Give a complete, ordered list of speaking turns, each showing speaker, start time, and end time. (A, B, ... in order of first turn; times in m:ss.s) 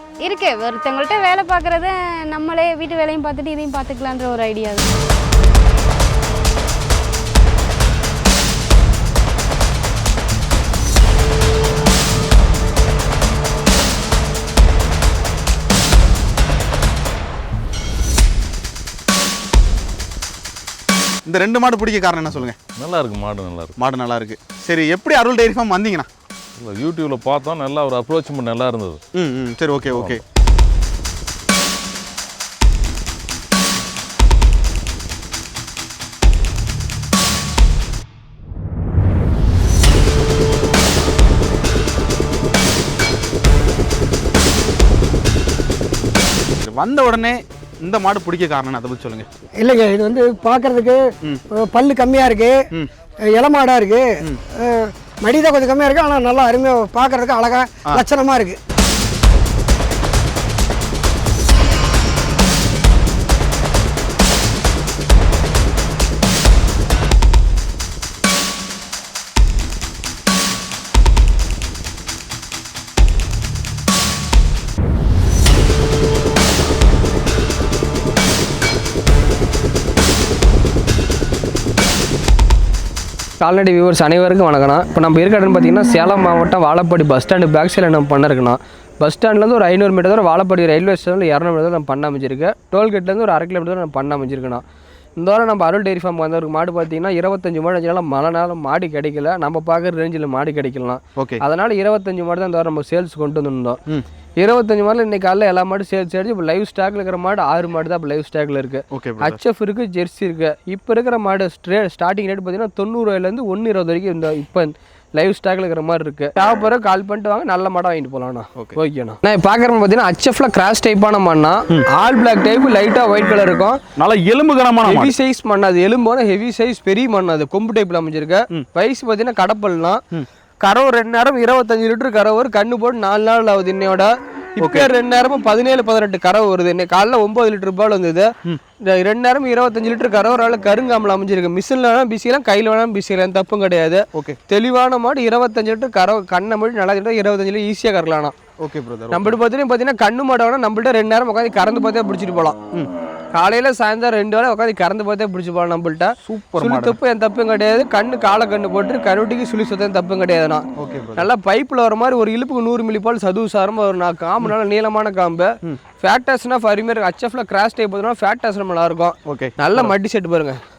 0:00.2-0:04.8 A
0:21.2-0:22.6 B
0:22.8-0:23.7 C
0:23.8-0:26.1 B
0:26.6-0:29.0 C
0:29.1-0:30.2 B
0:29.9-0:30.2 C
0:46.6-0:49.3 B
0:49.6-0:51.0 D
0:51.5-0:52.6 D
0:53.3-0:58.6 D
1:23.4-1:34.6 E
1:35.2-1:43.8 E
1:44.4-2:03.8 E
1:48.9-1:49.4 B
2:04.0-2:05.1 B
2:04.8-2:10.0 E
2:10.6-2:18.3 E
2:14.6-2:14.9 B
2:18.9-2:28.3 E
2:28.6-2:29.4 B
2:29.1-2:32.6 E
2:33.3-2:40.6 E
2:36.2-2:37.0 B
2:40.8-2:41.3 B
2:41.2-2:45.5 E
2:46.0-2:50.6 E
2:49.3-2:49.9 B